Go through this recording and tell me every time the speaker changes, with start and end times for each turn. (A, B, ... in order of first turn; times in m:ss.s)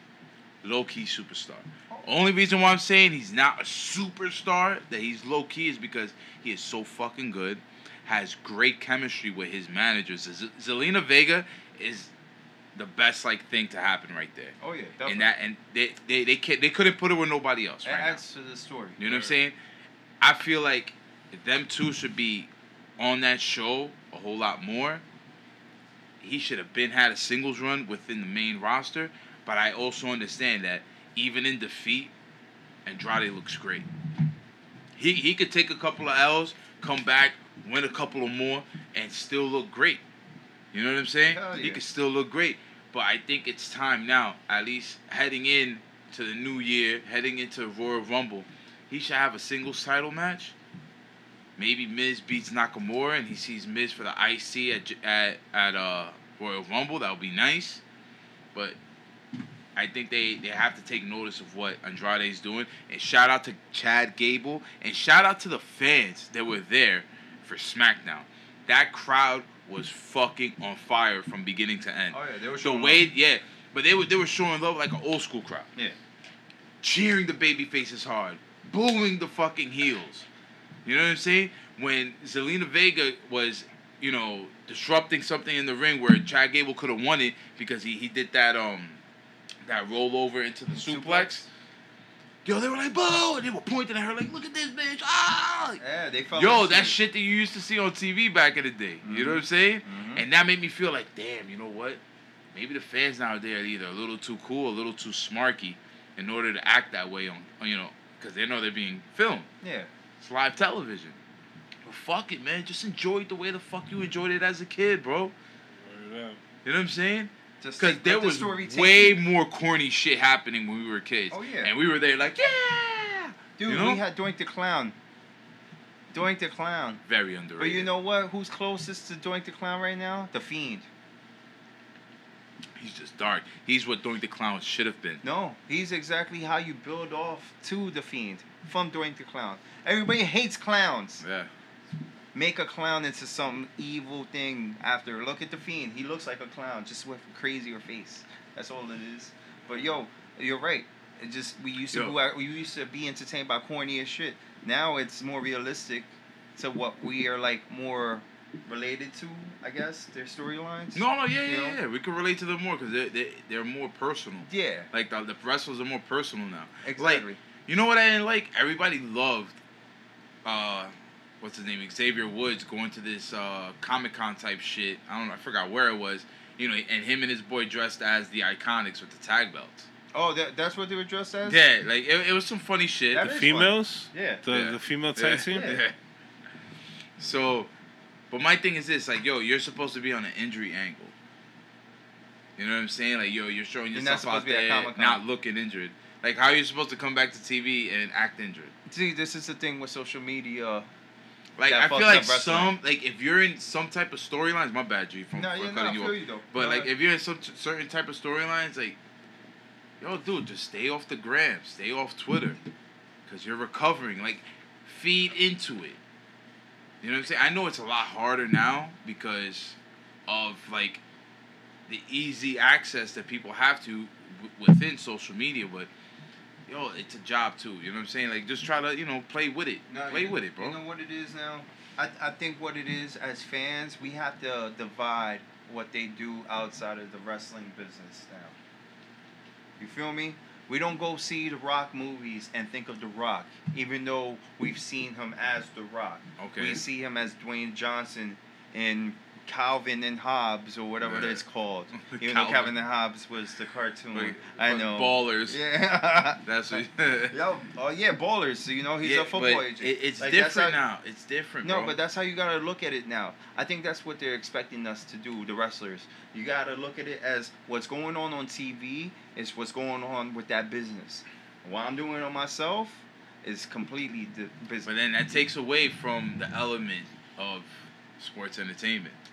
0:00.6-0:12.1 A
0:12.8-0:18.2 A
0:14.6-0:15.3 B
0:17.8-0:19.3 B
0:19.0-0:19.6 A
0:20.2-0:25.0 A
0:26.2-0:32.1 A
0:32.9-0:33.9 A
0:35.0-0:40.0 A
0:40.7-0:50.6 A
0:41.3-0:41.8 B
0:51.6-0:57.8 A
0:59.8-1:15.7 A
1:12.1-1:13.1 B
1:16.8-1:20.3 A
1:20.8-1:29.0 A
1:29.6-1:31.4 A
1:30.7-1:31.5 B
1:32.4-1:35.8 A
1:35.8-1:37.0 B
1:36.4-1:42.0 A
1:39.0-1:40.2 B
1:42.5-1:49.5 A
1:49.6-1:49.9 B
1:50.2-1:51.2 A
1:51.8-1:55.4 A
1:55.7-1:56.4 C
1:56.6-2:04.0 A
1:57.6-1:59.2 B
2:01.3-2:01.7 B
2:03.6-2:05.0 B
2:06.1-2:07.0 B
2:07.1-2:07.9 A
2:07.6-2:10.9 B
2:12.8-2:15.2 A
2:15.2-2:21.2 B
2:21.2-2:21.5 A
2:22.3-2:41.8 B
2:31.9-2:32.2 A
2:41.0-2:49.6 A
2:44.5-2:44.9 B
2:46.8-2:47.4 B
2:50.4-2:59.9 A
3:00.1-3:01.6 B
3:01.4-3:03.3 A
3:03.1-3:04.4 B
3:03.2-3:05.7 C
3:04.5-3:05.9 A
3:05.5-3:05.8 B
3:07.2-3:07.7 A
3:08.3-3:11.1 A
3:12.6-3:18.7 A
3:13.9-3:15.2 B
3:18.9-3:20.9 B
3:21.6-3:29.0 A
3:21.7-3:22.8 B
3:25.3-3:26.9 B
3:30.0-3:32.6 A
3:33.3-3:36.0 A
3:37.0-3:41.0 A
3:41.9-3:45.9 A
3:46.7-3:50.8 A
3:49.9-3:58.5 B
3:59.8-4:20.8 B
4:06.4-4:06.8 A
4:11.0-4:11.4 A
4:12.0-4:12.7 A
4:14.1-4:15.6 A
4:16.4-4:17.4 A
4:19.0-4:22.0 A
4:21.6-4:34.9 B
4:34.8-4:39.2 A